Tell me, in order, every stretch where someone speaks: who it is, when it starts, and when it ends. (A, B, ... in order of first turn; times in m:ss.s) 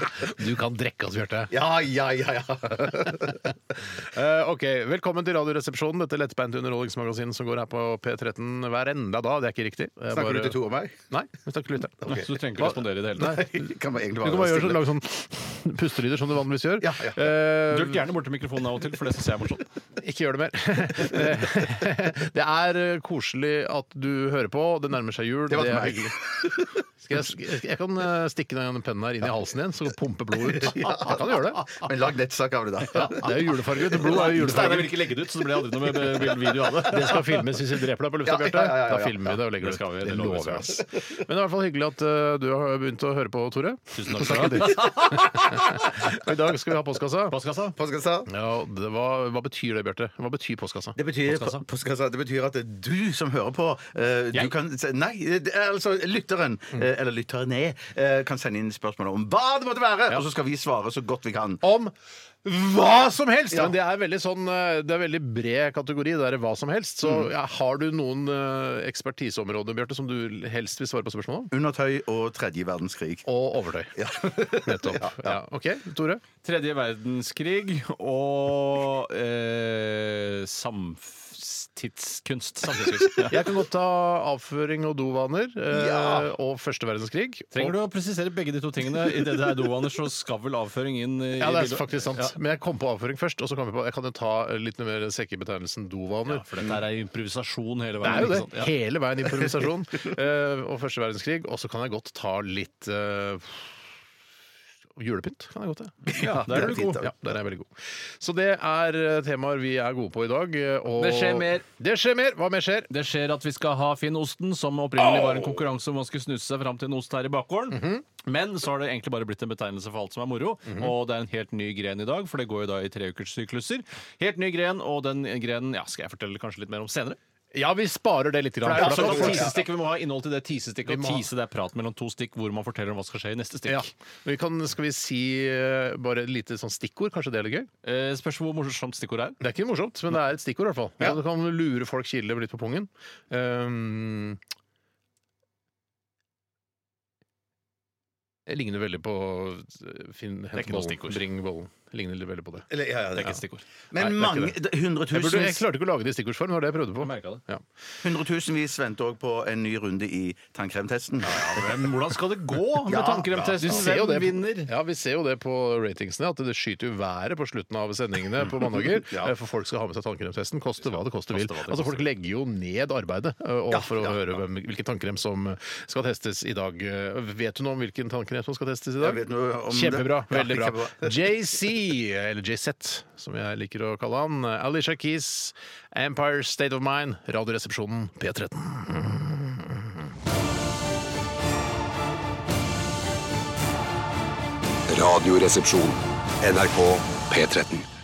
0:00.2-0:01.5 A
0:01.5-0:03.5 B
0:04.0-0:13.6 A
0:10.1-0:11.0 B
0:12.0-0:13.4 C
0:13.2-0:14.8 B
0:14.2-0:18.1 A
0:16.8-0:17.3 B
0:17.7-0:19.7 C
0:20.0-0:26.2 A
0:25.5-0:26.7 B
0:27.0-0:31.8 A
0:30.5-0:33.3 B
0:33.0-0:35.0 A
0:34.0-0:37.4 C
0:36.8-0:47.4 A
0:38.2-0:39.4 B
0:39.6-0:40.8 C
0:43.9-0:45.7 C
0:47.3-0:47.8 C
0:47.8-0:48.3 B
0:48.3-0:51.0 A
0:51.0-1:01.6 B
0:51.2-0:51.6 C
1:01.6-1:01.9 A
1:02.4-1:11.5 A
1:07.0-1:07.3 B
1:11.5-1:13.3 B
1:13.2-1:16.2 A
1:14.0-1:15.4 B
1:16.4-1:23.4 C
1:23.3-1:27.8 A
1:25.7-1:26.3 B
1:27.5-1:32.3 C
1:31.4-1:36.5 A
1:36.2-1:38.7 C
1:38.0-1:43.8 A
1:45.0-1:52.9 A
1:46.1-1:47.0 C
1:46.1-1:47.1 B
1:51.0-1:51.6 C
1:52.9-2:07.2 C
1:57.7-1:58.0 A
2:07.5-2:09.6 A
2:08.6-2:13.9 C
2:08.7-2:09.6 B
2:10.8-2:11.2 A
2:13.6-2:17.7 A
2:17.8-2:19.4 C
2:19.4-2:24.4 A
2:28.5-2:32.6 A
2:30.6-2:31.2 C
2:32.7-2:35.6 B
2:33.2-2:33.6 C
2:34.0-2:34.6 A
2:35.1-2:37.6 A
2:37.0-2:37.4 C
2:38.0-2:41.7 B
2:41.2-2:44.7 C
2:42.8-2:43.9 B
2:43.6-3:10.1 A
2:48.8-2:49.3 B
2:50.8-2:52.0 C
2:53.7-2:54.2 B
2:59.0-3:01.3 B
3:14.9-3:17.9 D